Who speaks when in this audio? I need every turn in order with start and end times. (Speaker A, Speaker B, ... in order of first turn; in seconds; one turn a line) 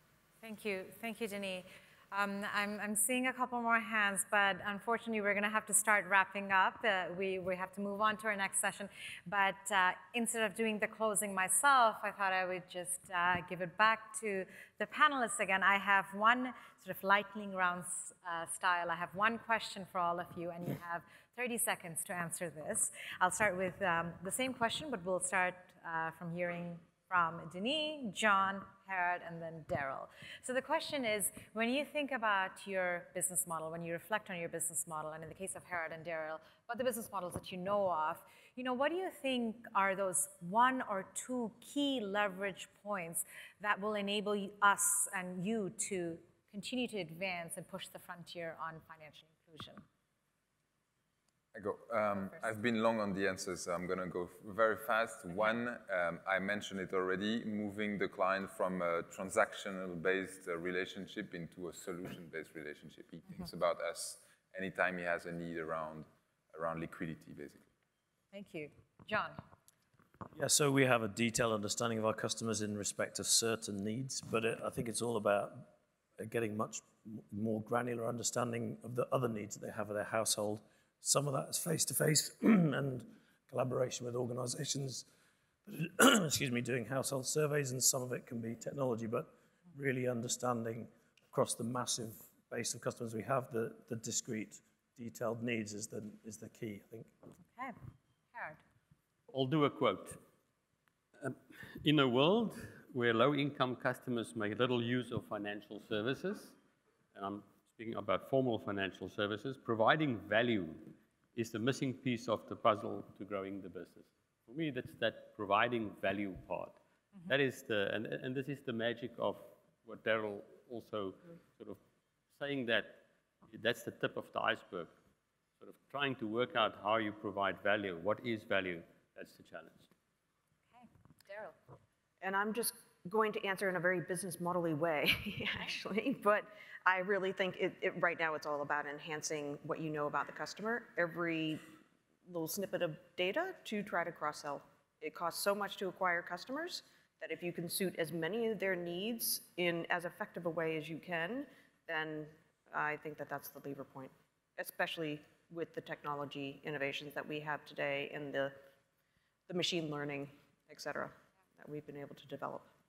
Speaker A: 0.4-49.8
Speaker B: 51.5-67.7
Speaker A: 68.3-69.4
Speaker C: 70.3-75.7
Speaker C: 76.2-85.1
Speaker C: 85.7-97.1
Speaker A: 98.3-98.6
Speaker D: 99.3-100.2
Speaker D: 101.2-106.5
Speaker D: 107.1-121.8
Speaker D: 122.3-125.0
Speaker D: 125.6-129.9
Speaker A: 130.8-131.6
Speaker E: 132.2-141.6
Speaker E: 142.3-158.6
Speaker E: 159.5-162.7